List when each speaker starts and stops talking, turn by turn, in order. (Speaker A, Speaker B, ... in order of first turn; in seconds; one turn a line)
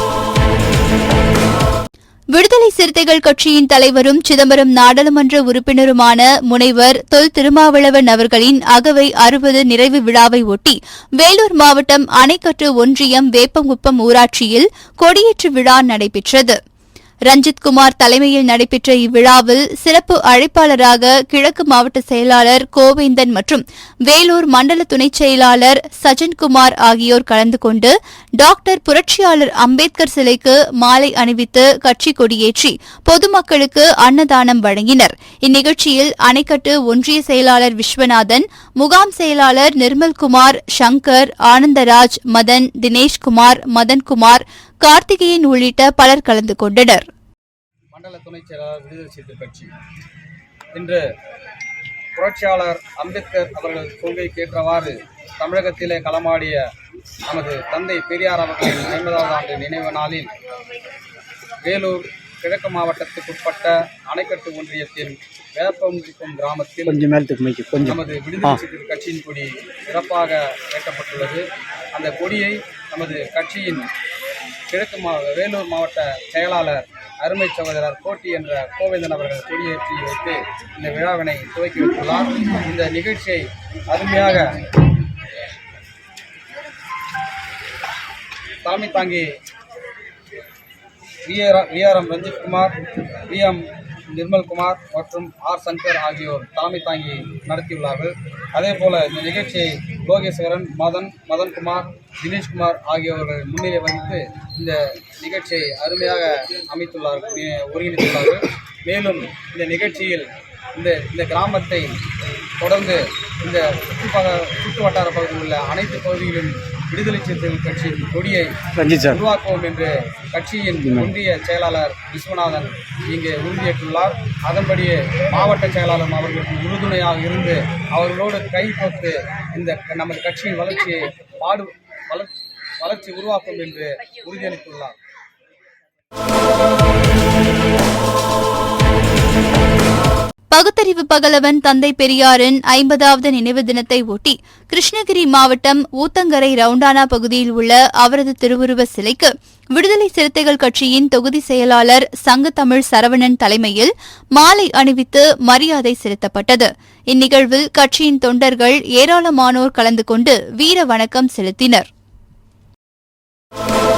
Speaker A: 2.3-16.6
Speaker A: 17.3-47.0
Speaker B: 47.9-49.7
Speaker B: 50.7-51.0
Speaker B: 52.1-56.6
Speaker B: 57.3-60.3
Speaker B: 61.6-67.0
Speaker C: 66.8-68.6
Speaker B: 67.8-73.9
Speaker B: 74.7-84.5
Speaker B: 88.6-89.3
Speaker B: 91.2-92.7
Speaker B: 93.3-112.0
Speaker B: 112.6-118.5
Speaker C: 118.8-119.2
Speaker B: 119.1-134.9
Speaker C: 120.8-121.1
Speaker A: 140.5-161.9